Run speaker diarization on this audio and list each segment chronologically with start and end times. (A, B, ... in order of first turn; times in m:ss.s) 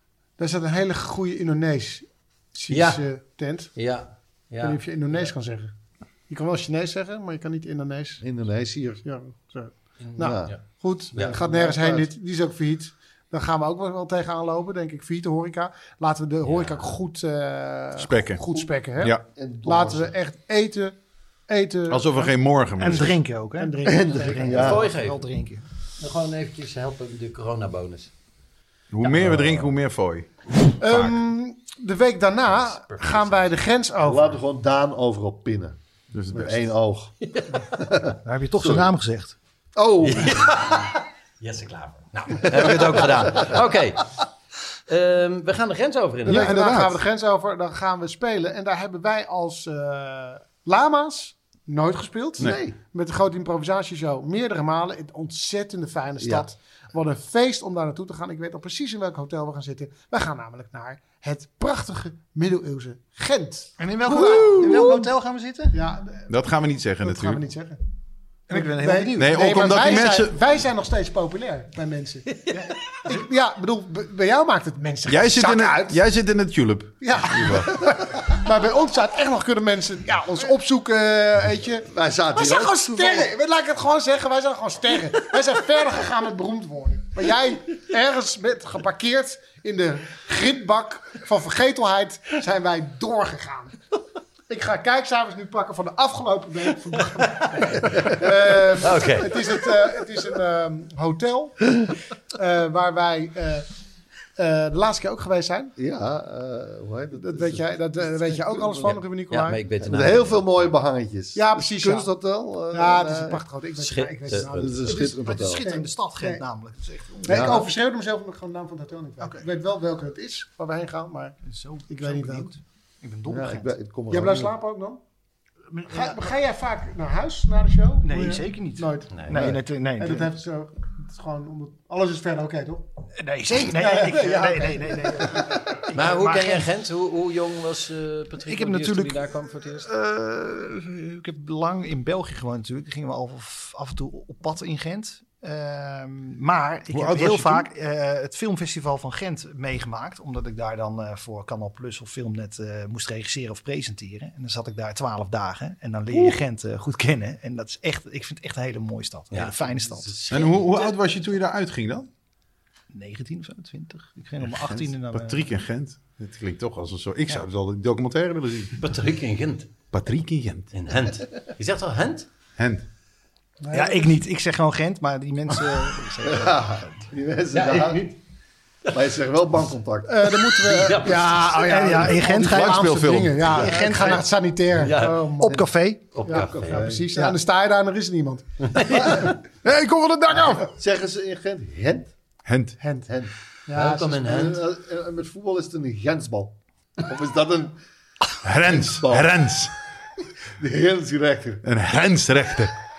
0:00.4-0:03.7 A
0:02.7-0:03.0 B
0:03.8-0:05.3 B
0:04.6-0:05.7 A
0:06.3-0:08.2 A
0:08.2-0:09.0 C
0:09.0-0:21.0 A
0:10.0-0:10.6 B
0:10.2-0:10.5 C
0:11.1-0:12.1 C
0:16.4-0:16.9 B
0:18.0-0:18.4 D
0:19.0-0:19.2 D
0:19.1-0:20.1 C
0:21.5-0:22.3 A
0:21.9-0:23.1 D
0:22.8-0:25.6 E
0:22.8-0:24.7 A
0:23.8-0:24.9 C
0:24.6-0:25.2 B
0:26.0-0:28.1 B
0:28.9-0:30.3 D
0:29.1-0:29.5 B
0:30.8-0:34.4 A
0:30.8-0:31.2 D
0:32.6-0:33.5 B
0:34.0-0:35.8 C
0:36.1-0:36.6 D
0:36.3-0:37.1 C
0:37.2-0:37.8 B
0:37.8-0:38.9 C
0:38.2-0:39.3 E
0:39.8-0:40.6 C
0:40.0-0:44.1 B
0:42.5-0:43.6 C
0:44.9-0:46.5 B
0:46.2-0:47.0 D
0:46.2-1:05.1 A
0:52.4-0:52.8 C
0:56.2-0:56.5 C
1:03.8-1:05.8 E
1:05.7-1:06.3 A
1:06.3-1:07.4 D
1:07.0-1:07.8 A
1:08.5-1:09.6 E
1:08.5-1:12.5 A
1:09.2-1:10.4 D
1:13.0-1:16.0 A
1:15.1-1:17.7 D
1:17.0-1:33.8 A
1:21.8-1:23.3 C
1:34.5-1:43.7 A
1:38.8-1:39.6 B
1:44.4-1:45.7 A
1:45.8-1:49.0 C
1:47.2-1:49.6 A
1:48.8-1:50.7 B
1:49.8-1:53.4 C
1:51.3-1:52.1 A
1:52.7-1:56.4 A
1:53.8-1:54.8 B
1:54.6-1:55.6 C
1:54.9-1:57.6 E
1:57.2-2:01.4 A
1:57.3-1:57.7 C
2:01.4-2:03.7 E
2:01.9-2:02.5 A
2:03.3-2:04.5 C
2:04.1-2:05.0 A
2:05.7-2:06.2 E
2:05.9-2:09.4 A
2:08.0-2:10.3 E
2:09.3-2:09.6 C
2:10.0-2:12.8 A
2:13.2-2:16.7 E
2:13.6-2:15.8 A
2:15.9-2:19.9 B
2:18.4-2:40.2 E
2:26.9-2:27.7 D
2:39.3-2:40.9 B
2:40.3-2:42.1 D
2:42.9-2:45.5 E
2:44.4-2:48.7 D
2:48.8-2:49.7 B
2:49.9-2:50.7 D
2:50.7-2:52.3 B
2:52.6-2:52.8 D
2:53.6-2:54.1 A
2:53.7-2:56.7 E
2:56.2-2:58.1 C
2:57.5-2:58.1 B
2:58.9-3:00.9 C
3:00.1-3:05.7 A
3:00.6-3:01.9 B
3:01.5-3:03.0 E
3:02.4-3:03.7 D
3:03.5-3:04.2 B
3:03.7-3:04.2 E
3:04.8-3:05.3 B
3:05.4-3:06.2 E
3:06.1-3:06.9 B
3:06.2-3:09.3 A
3:06.3-3:07.1 C
3:08.7-3:09.3 B
3:09.6-3:10.7 D
3:10.6-3:12.1 C
3:12.4-3:12.8 D
3:12.8-3:13.1 A
3:13.7-3:14.2 A
3:13.7-3:14.6 B
3:14.1-3:17.8 C
3:18.4-3:19.7 D
3:18.6-3:19.3 C
3:20.6-3:21.6 C
3:21.6-3:22.7 D